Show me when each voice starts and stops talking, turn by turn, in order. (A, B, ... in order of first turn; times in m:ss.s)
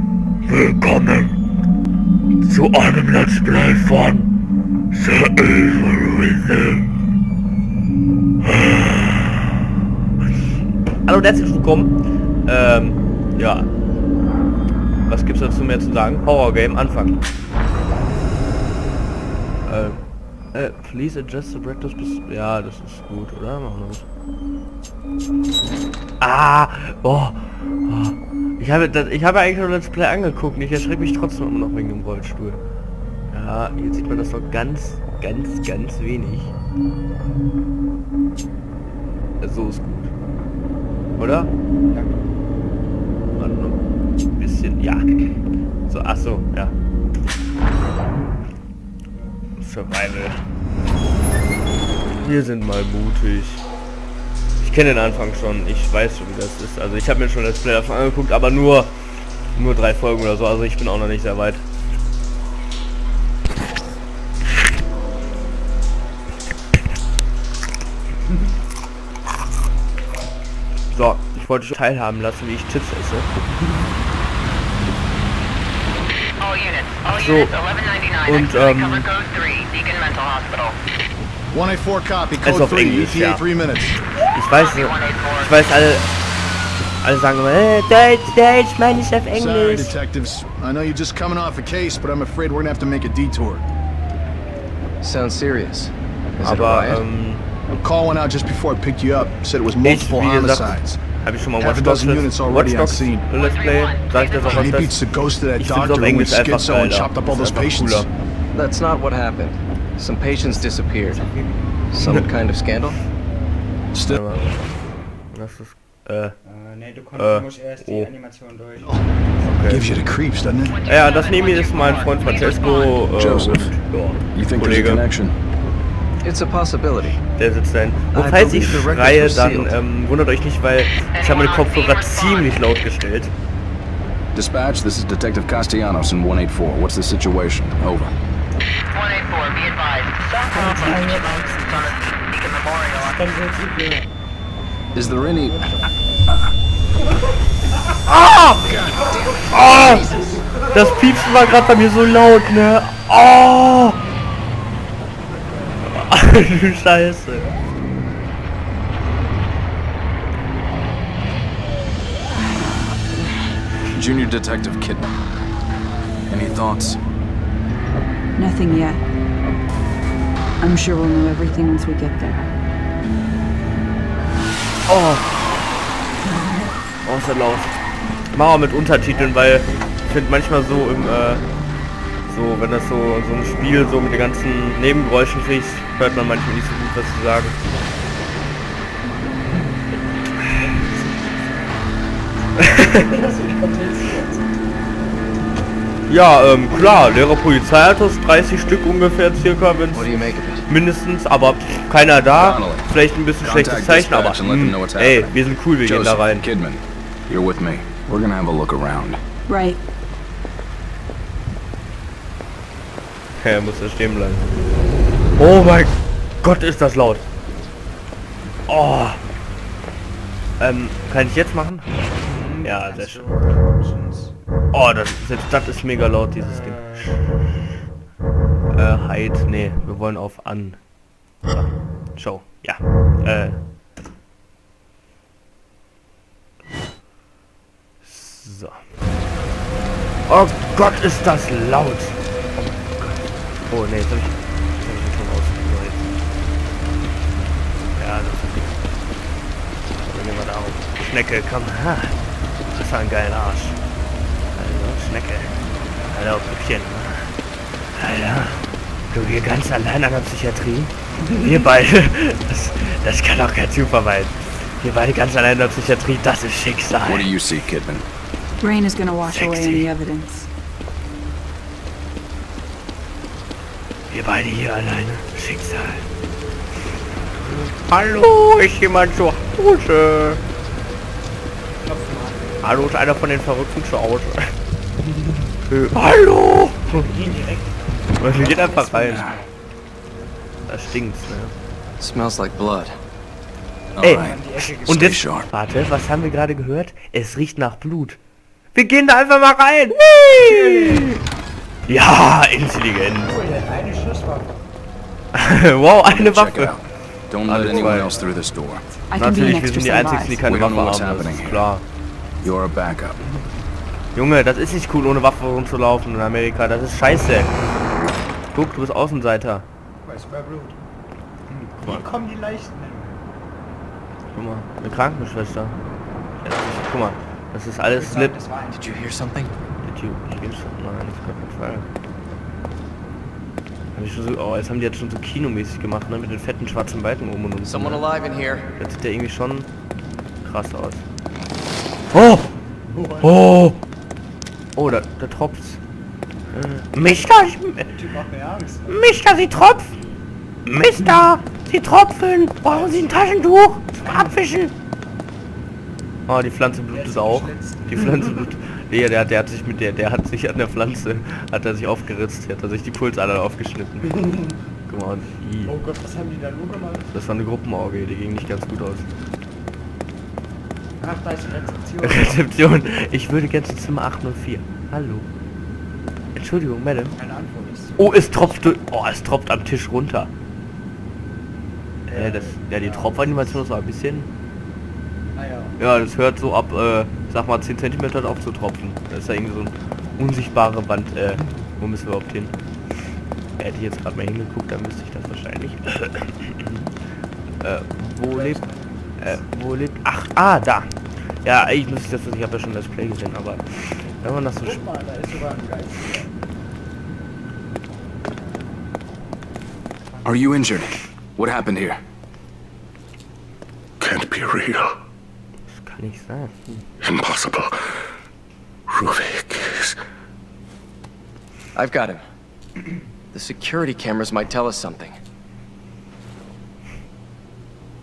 0:00.5-0:01.3 A
0:02.4-0:04.3 A
0:04.9-0:06.9 A
0:08.4-0:09.4 A
0:11.0-0:13.7 A
0:15.1-0:17.2 A
0:19.6-0:24.0 A
0:26.2-0:32.6 A
0:33.3-0:36.5 A
0:39.4-0:40.1 A
0:41.2-0:41.5 A
0:41.8-0:42.3 B
0:43.4-0:43.8 A
0:44.4-0:45.1 A
0:45.9-0:46.7 A
0:49.1-0:49.4 B
0:49.6-0:50.4 A
0:52.1-0:53.6 A
0:54.6-0:58.9 A
0:59.5-1:01.6 A
1:10.9-1:13.3 A
1:16.4-1:20.8 C
1:17.1-1:17.5 A
1:18.2-1:19.1 A
1:21.5-1:24.0 D
1:22.4-1:23.4 A
1:24.3-1:26.1 A
1:24.4-1:25.7 C
1:27.0-1:30.0 A
1:29.3-1:33.6 D
1:35.0-1:37.0 E
1:36.4-1:37.5 A
1:37.7-1:41.0 D
1:39.8-1:45.0 A
1:41.6-1:43.3 D
1:43.4-1:44.8 C
1:44.4-1:48.1 D
1:45.6-1:48.1 A
1:48.5-1:51.2 E
1:51.0-1:51.9 B
1:51.9-1:53.0 E
1:53.2-1:53.8 B
1:53.9-1:54.2 D
1:54.0-1:54.5 A
1:55.3-1:56.4 A
1:56.4-1:59.2 B
1:57.1-1:58.1 A
1:59.4-1:59.9 A
1:59.7-2:00.8 D
2:00.7-2:03.0 C
2:00.8-2:05.1 A
2:03.2-2:03.7 F
2:03.2-2:03.6 D
2:04.3-2:05.3 F
2:06.2-2:07.2 E
2:07.3-2:13.3 A
2:08.1-2:09.8 E
2:11.2-2:12.6 C
2:14.3-2:18.1 F
2:18.9-2:23.2 C
2:20.5-2:22.0 B
2:23.1-2:24.1 B
2:24.8-2:26.2 B
2:24.9-2:25.6 F
2:28.0-2:28.8 A
2:28.7-2:30.4 E
2:29.5-2:30.0 A
2:30.7-2:34.0 A
2:35.2-2:35.9 B
2:35.9-2:37.5 A
2:43.9-2:45.1 F
2:46.3-2:47.0 F
2:48.3-2:49.0 G
2:50.6-2:52.5 G
2:54.9-2:55.4 A
2:57.0-2:57.8 A
2:58.3-3:01.4 A
2:59.1-2:59.9 B
3:02.3-3:07.6 A
3:10.4-3:14.8 B
3:12.6-3:13.0 A
3:16.1-3:26.4 A
3:19.9-3:20.7 E
3:22.3-3:22.9 F
3:23.4-3:29.2 F
3:29.5-3:29.8 G
3:33.4-3:34.5 A
3:35.4-3:37.2 A
3:38.7-3:39.2 A
3:40.6-3:41.9 A
3:42.2-3:44.3 B
3:42.6-3:43.2 A
3:44.7-3:46.9 A
3:46.4-3:47.2 B
3:48.7-3:53.6 A
3:58.0-3:58.9 A
4:00.3-4:02.7 A
4:03.7-4:06.1 A
4:07.9-4:08.8 A
4:10.0-4:13.8 A
4:14.5-4:15.5 A
4:15.8-4:16.6 B
4:16.1-4:17.3 A
4:18.0-4:27.3 A
4:27.0-4:28.0 F
4:28.6-4:30.5 G
4:29.3-4:29.9 A
4:34.1-4:36.0 A
4:37.4-4:40.4 A
4:41.8-4:42.7 B
4:42.6-4:44.5 A
4:45.0-4:45.5 B
4:45.7-4:47.1 A
4:46.9-4:49.5 B
4:48.2-4:49.3 A
4:50.7-4:51.5 A
4:52.0-4:53.0 E
4:53.9-4:55.1 B
4:54.0-4:55.5 F
4:54.0-4:54.4 A
4:54.9-4:58.2 A
4:58.7-5:01.2 A
5:00.4-5:01.2 B
5:01.9-5:03.4 A
5:03.2-5:04.7 B
5:05.3-5:06.8 A
5:06.0-5:08.8 F
5:07.4-5:08.1 A
5:07.6-5:09.1 B
5:09.1-5:10.5 G
5:09.1-5:11.8 A
5:10.4-5:11.7 F
5:12.4-5:13.2 F
5:13.2-5:13.5 B
5:14.1-5:17.6 A
5:18.5-5:19.6 A
5:20.0-5:20.8 B
5:21.5-5:23.2 B
5:24.3-5:25.8 A
5:26.4-5:28.3 A
5:27.9-5:29.1 B
5:28.7-5:29.5 E
5:29.8-5:31.9 A
5:33.9-5:38.0 A
5:37.6-5:38.7 E
5:38.8-5:39.7 A
5:40.4-5:41.0 A
5:42.1-5:42.4 A
5:42.9-5:43.5 B
5:43.2-5:43.8 A
5:44.8-5:45.8 A
5:46.5-5:47.9 A
5:47.8-5:49.2 B
5:48.9-5:50.0 A
5:50.6-5:54.7 A
5:52.6-5:53.3 B
5:54.1-5:54.3 B
5:56.3-6:04.3 A
5:56.9-5:58.5 B
6:04.0-6:04.6 B
6:04.9-6:05.7 A
6:05.6-6:07.1 B
6:07.1-6:09.1 A
6:11.0-6:12.5 B
6:12.0-6:15.3 A
6:16.3-6:17.2 A
6:17.2-6:18.6 B
6:18.0-6:20.3 A
6:22.1-6:24.3 A
6:22.1-6:23.6 B
6:25.3-6:25.8 B
6:25.8-6:32.6 A
6:33.6-6:36.6 A
6:36.6-6:36.9 B
6:37.6-6:38.6 A
6:38.3-6:39.4 B
6:39.2-6:44.8 A
6:44.6-6:46.4 B
6:50.1-6:50.6 B
6:50.2-6:52.0 F
6:54.0-6:55.0 H
6:55.7-6:56.8 A
6:57.0-6:58.0 H
6:58.9-7:00.0 H
7:01.7-7:02.2 E
7:03.3-7:05.2 E